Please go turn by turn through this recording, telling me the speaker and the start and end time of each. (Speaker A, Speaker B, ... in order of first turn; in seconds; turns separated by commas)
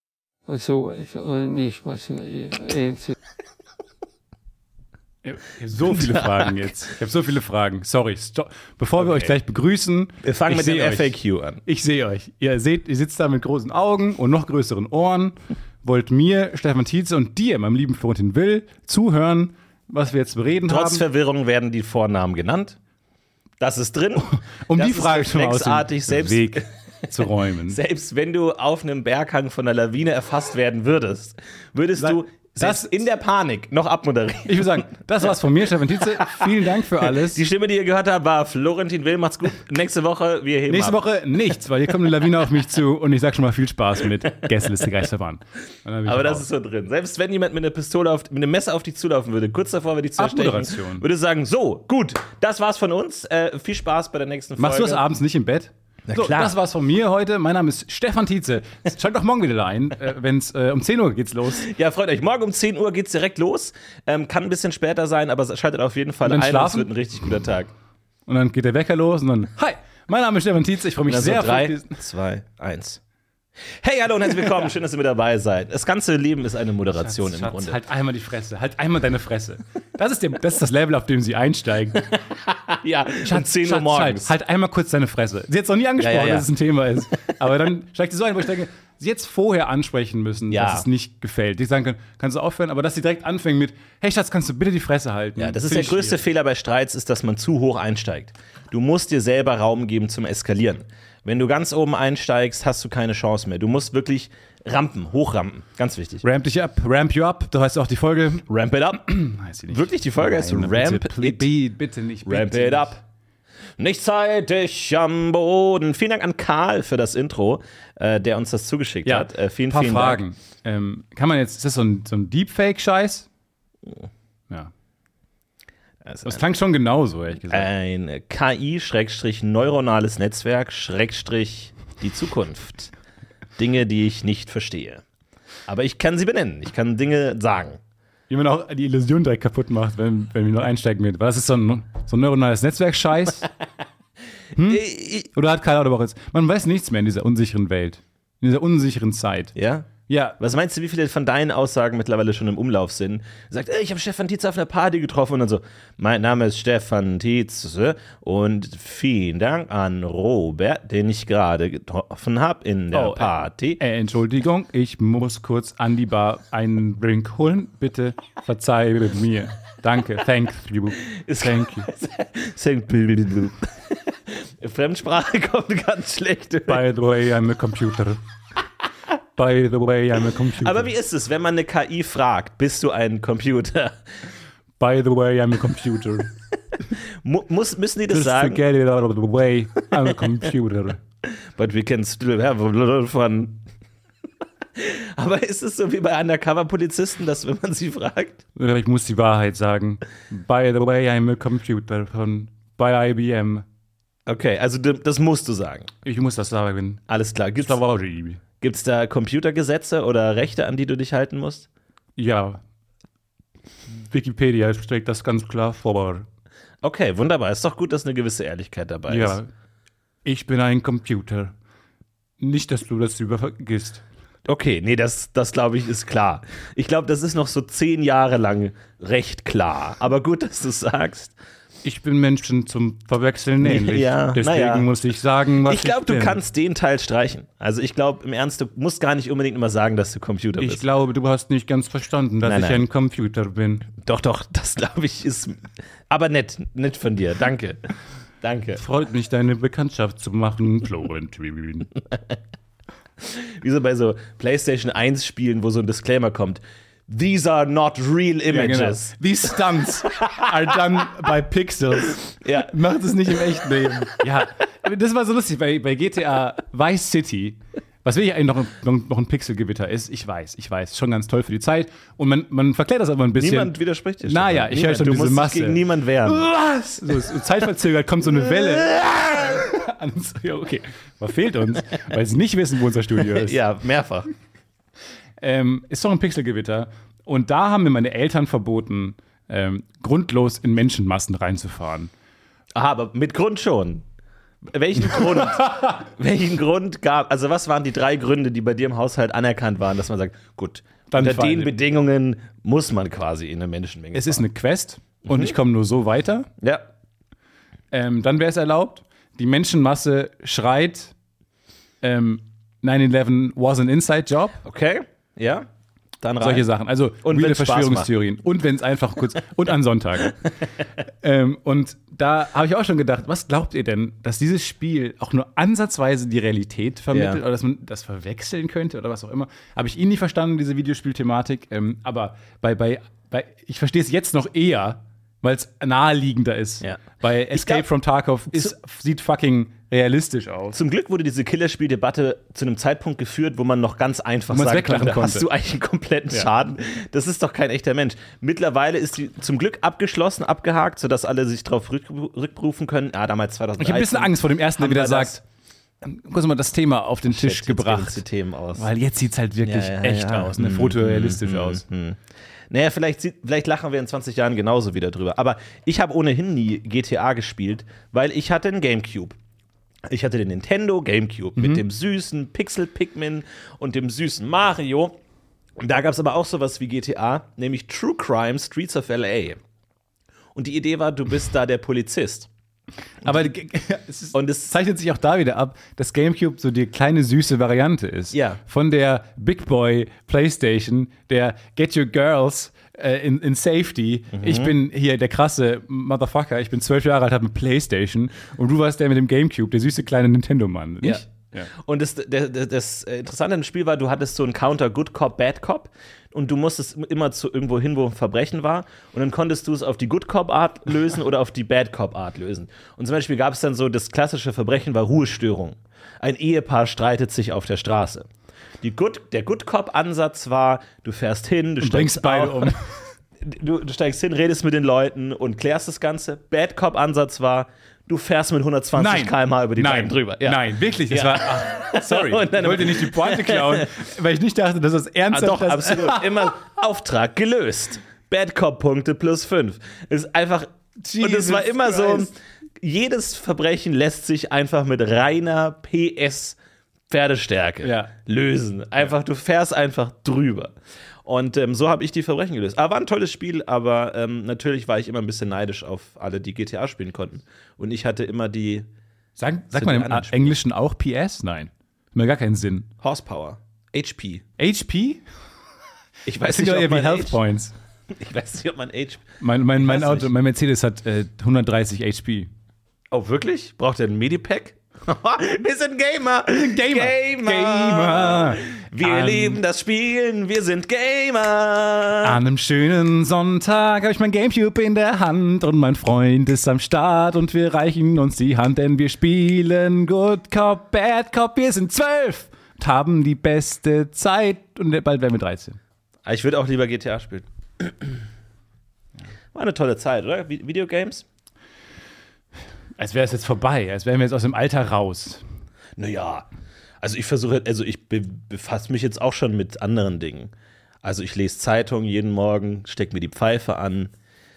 Speaker A: 0.5-3.1, Speaker B: 5.2-11.1, Speaker C: 9.0-9.3, Speaker C: 10.2-11.6, Speaker B: 11.7-21.1, Speaker C: 20.7-22.8, Speaker C: 23.6-34.9, Speaker B: 24.4-27.8, Speaker B: 32.0-33.0, Speaker B: 34.5-37.4, Speaker C: 36.2-41.0, Speaker B: 40.7-46.5, Speaker C: 46.1-55.0, Speaker B: 50.2-51.1, Speaker B: 54.6-61.7, Speaker C: 56.1-56.6, Speaker C: 61.5-67.7, Speaker B: 66.2-66.9, Speaker B: 68.3-72.0, Speaker C: 71.1-73.0, Speaker C: 73.7-77.8, Speaker B: 77.0-82.1, Speaker C: 82.1-84.3, Speaker B: 83.2-96.2, Speaker C: 86.0-86.5, Speaker C: 90.5-90.9, Speaker C: 95.4-106.3, Speaker B: 106.2-108.5, Speaker C: 108.5-109.1, Speaker B: 109.0-112.9, Speaker C: 109.7-111.5, Speaker C: 112.2-113.0, Speaker C: 113.8-120.2, Speaker B: 119.0-123.3, Speaker C: 126.0-126.4, Speaker B: 126.2-127.7, Speaker C: 127.5-132.9, Speaker C: 133.6-135.0, Speaker C: 135.7-137.8, Speaker B: 138.3-143.5, Speaker B: 144.6-149.5, Speaker C: 144.6-145.3, Speaker C: 149.6-163.8, Speaker B: 150.1-150.4, Speaker B: 162.9-171.9, Speaker C: 171.1-176.8, Speaker B: 176.7-178.2, Speaker B: 179.4-180.9, Speaker C: 180.6-184.0, Speaker B: 184.8-186.3, Speaker C: 187.0-188.6, Speaker B: 188.1-191.0, Speaker C: 191.2-193.6, Speaker C: 194.8-198.4, Speaker B: 198.6-203.7, Speaker C: 204.3-205.9, Speaker B: 206.0-207.0, Speaker C: 207.1-207.8, Speaker B: 207.6-208.4, Speaker C: 208.6-211.7, Speaker B: 212.2-212.6, Speaker B: 214.0-216.3, Speaker C: 216.8-219.4, Speaker B: 219.1-219.5, Speaker B: 220.2-221.5, Speaker B: 222.4-224.0, Speaker C: 224.4-231.3, Speaker B: 231.8-236.4, Speaker C: 233.6-234.9, Speaker C: 235.6-240.8, Speaker B: 240.6-243.9, Speaker C: 242.4-242.8, Speaker C: 244.0-247.9, Speaker C: 248.4-248.8, Speaker B: 248.8-251.9, Speaker C: 253.2-259.1, Speaker B: 258.5-273.7, Speaker C: 260.0-261.0, Speaker C: 262.2-262.8, Speaker C: 273.4-276.5, Speaker B: 274.3-283.6, Speaker C: 278.5-279.6, Speaker C: 283.2-284.3, Speaker B: 285.4-292.1, Speaker C: 292.7-294.1, Speaker C: 294.7-304.4, Speaker B: 295.5-295.9, Speaker B: 301.1-301.8, Speaker B: 304.1-306.5, Speaker C: 305.2-305.6, Speaker C: 306.6-306.9, Speaker B: 307.9-311.1, Speaker B: 312.0-314.6, Speaker C: 314.6-315.7, Speaker C: 316.2-316.7, Speaker B: 316.4-340.8, Speaker C: 317.2-318.1, Speaker C: 327.1-327.4, Speaker C: 336.8-337.9, Speaker C: 340.7-355.4, Speaker B: 344.5-345.5, Speaker B: 353.8-355.4, Speaker B: 356.0-358.2, Speaker C: 357.3-358.9, Speaker B: 358.8-361.9, Speaker C: 359.6-369.4, Speaker C: 370.1-375.2, Speaker B: 371.6-371.8, Speaker C: 375.8-379.6, Speaker C: 380.6-382.5, Speaker B: 383.2-401.7, Speaker C: 384.3-384.7, Speaker C: 388.3-388.6, Speaker C: 394.3-394.7, Speaker C: 401.0-418.3, Speaker C: 418.8-422.7, Speaker B: 421.8-423.0, Speaker C: 423.4-433.9, Speaker B: 429.0-436.6, Speaker C: 435.3-446.6, Speaker B: 441.0-442.3, Speaker C: 447.1-458.9, Speaker B: 447.8-448.1, Speaker B: 459.4-462.9, Speaker C: 459.7-460.6, Speaker C: 463.0-464.5, Speaker B: 464.6-465.2, Speaker C: 466.3-467.4, Speaker B: 466.4-467.7, Speaker C: 468.1-469.3, Speaker B: 469.4-472.5, Speaker C: 469.8-470.3, Speaker C: 473.1-482.4, Speaker B: 476.5-479.6, Speaker B: 482.2-495.8, Speaker C: 496.2-498.2, Speaker C: 499.5-501.2, Speaker B: 503.0-505.4, Speaker C: 506.0-506.5, Speaker C: 507.0-514.1